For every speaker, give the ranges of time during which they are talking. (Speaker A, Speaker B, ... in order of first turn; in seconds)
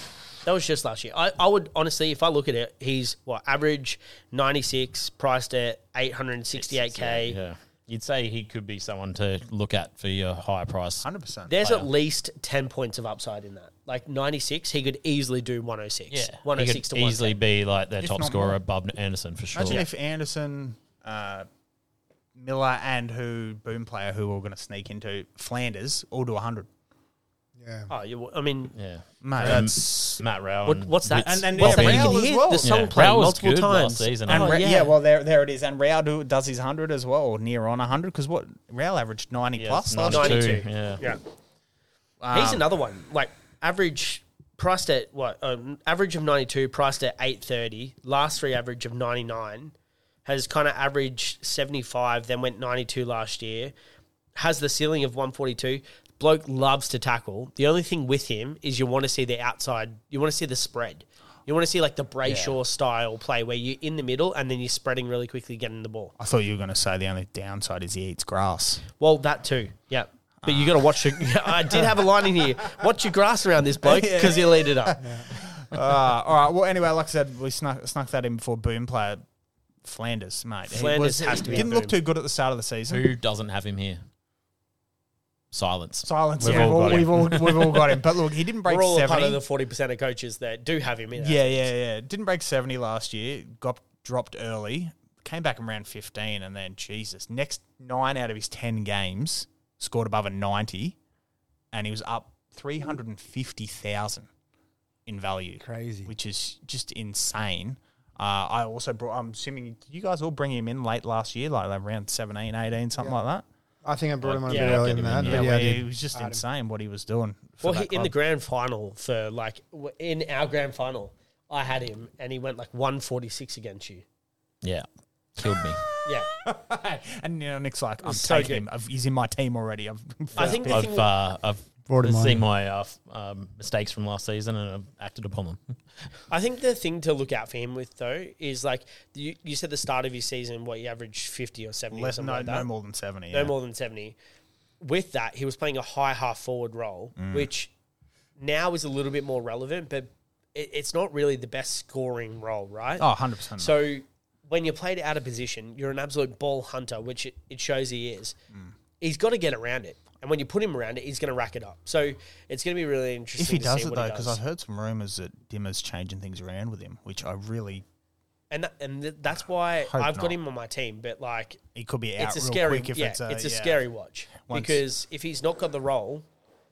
Speaker A: 0.4-7.4, 11.5-17.4, 27.9-28.7, 30.6-34.9, 40.0-41.2, 42.3-49.7, 50.2-53.7, 54.4-66.1, 69.0-75.0, 80.7-81.9, 86.4-87.1, 88.6-91.7, 114.5-114.8, 117.6-124.0, 128.0-128.7, 130.3-131.1, 136.3-142.7, 143.3-144.2, 144.8-147.7, 148.4-158.4, 159.0-164.4, 168.5-171.6, 172.2-176.2
Speaker B: 6.5-11.1, 11.6-11.9, 16.1-19.9, 28.7-34.5, 39.5-41.0, 62.2-62.6, 82.9-84.0, 85.5-88.0, 114.2-115.8, 124.6-125.8, 130.3-135.8
Speaker C: 11.0-11.6, 18.0-18.6, 19.5-21.5, 22.3-26.7, 29.2-30.2, 31.1-32.7, 34.3-40.5, 42.2-42.6, 66.2-68.8, 70.4-72.5, 73.8-79.2, 79.8-83.0, 86.0-89.4, 91.2-101.0, 101.7-104.3, 105.0-113.4, 114.8-118.1, 125.4-130.9, 141.9-143.6, 147.2-147.5, 153.0-153.8, 163.4-167.8, 169.9-170.4, 171.7-173.8, 174.5-174.8
Speaker D: 27.6-27.9, 75.0-75.4, 105.6-106.1, 113.8-116.4, 131.9-132.4